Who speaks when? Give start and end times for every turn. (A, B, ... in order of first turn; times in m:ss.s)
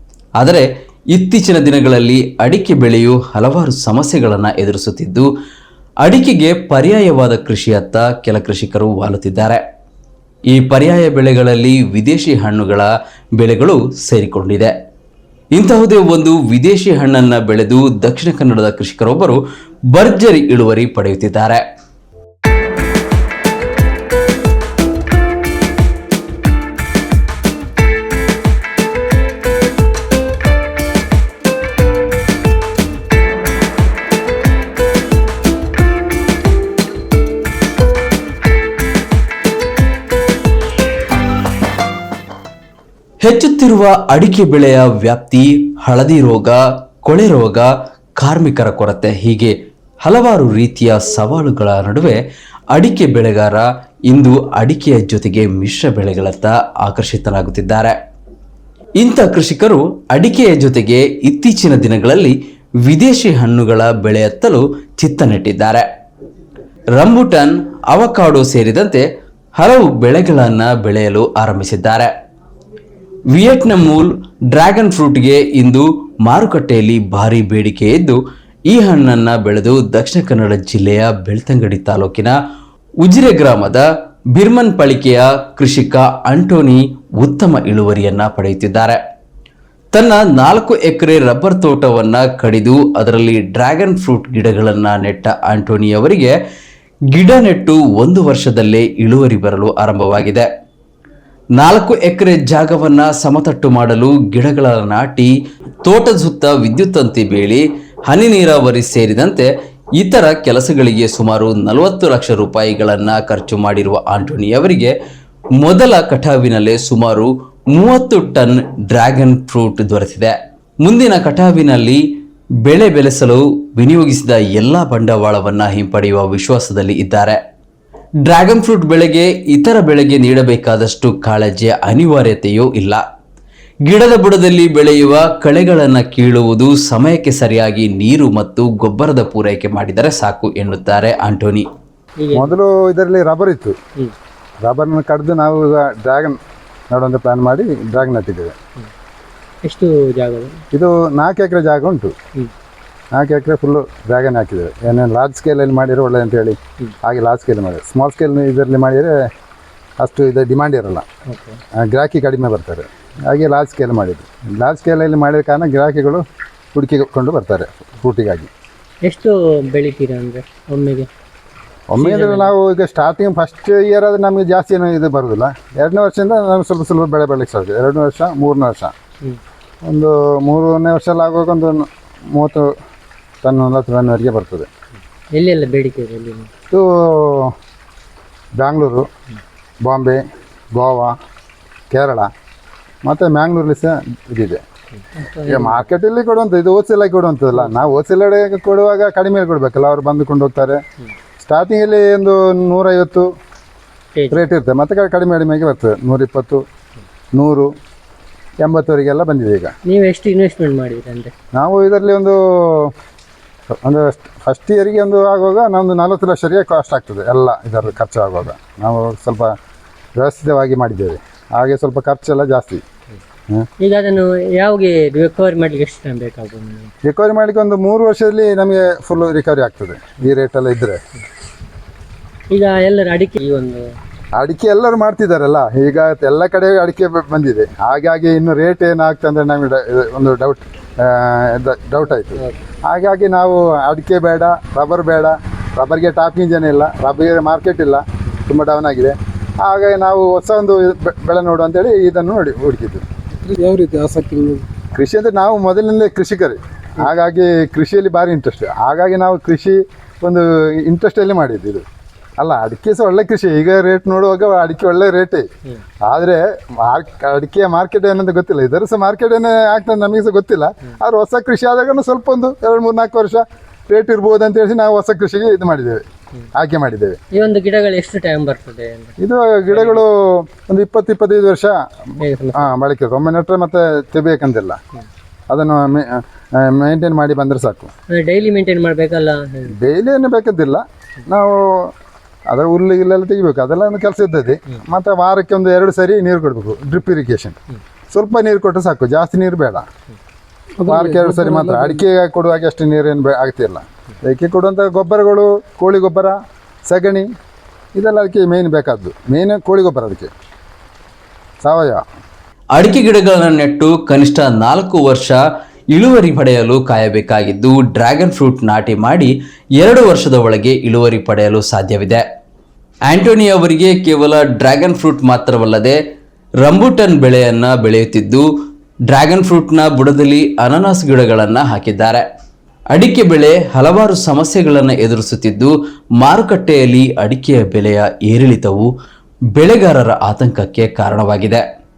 0:00.4-0:05.3 A
0:06.0-0:09.6 A
0:10.5-0:12.9 A
0:13.4-0:14.7 A
0:15.5-0:21.6 A
0:43.2-0:58.0 A
0:59.0-1:05.8 A
1:07.0-1:09.0 A
1:09.6-1:12.1 A
1:13.3-1:22.4 A
1:23.0-1:29.0 A
1:29.9-1:36.3 A
1:37.1-1:40.5 A
1:41.6-1:45.3 A
1:45.8-1:54.9 A
1:55.6-2:02.0 A
2:02.6-2:07.4 A
2:08.2-2:13.0 A
2:13.9-2:21.6 A
2:22.2-2:22.5 B
2:22.3-2:23.8 C
2:24.6-2:26.4 C
2:26.9-2:28.5 C
2:29.6-2:30.6 B
2:30.7-2:32.1 C
2:33.1-2:39.1 C
2:40.0-2:41.0 C
2:41.3-2:41.6 B
2:41.8-2:48.5 C
2:49.0-2:51.1 B
2:51.9-2:58.9 C
2:52.0-2:52.5 B
2:59.9-3:02.7 C
3:03.4-3:04.7 C
3:05.3-3:06.5 B
3:06.7-3:07.5 C
3:08.6-3:09.1 C
3:09.8-3:10.2 C
3:10.7-3:11.2 C
3:11.9-3:12.3 C
3:13.0-3:14.6 C
3:15.1-3:15.9 B
3:15.5-3:20.8 C
3:21.4-3:23.3 C
3:24.2-3:24.5 B
3:24.3-3:26.6 C
3:27.3-3:27.7 C
3:28.6-3:29.7 C
3:29.8-3:31.3 B
3:31.5-3:32.9 C
3:33.8-3:39.5 C
3:40.2-3:42.8 C
3:43.8-3:46.9 B
3:47.0-3:51.0 C
3:52.5-3:53.9 B
3:54.4-4:13.0 C
4:13.4-4:14.6 D
4:14.9-4:21.8 C
4:22.4-4:25.5 C
4:26.0-4:36.0 C
4:36.5-4:37.2 C
4:37.3-4:39.1 B
4:39.2-4:41.7 C
4:39.7-4:40.0 B
4:42.2-4:42.7 B
4:42.5-4:44.8 C
4:45.5-4:47.9 C
4:48.1-4:49.7 B
4:49.7-4:51.9 C
4:52.5-4:57.6 C
4:58.1-4:59.8 C
5:00.8-5:02.0 D
5:00.8-5:06.4 C
5:06.9-5:07.3 C
5:07.9-5:10.3 C
5:11.6-5:12.0 C
5:12.7-5:15.4 A
5:15.9-5:22.2 A
5:23.1-5:26.0 A
5:26.6-5:28.5 A
5:29.1-5:32.2 A
5:32.9-5:38.9 A
5:39.5-5:41.6 A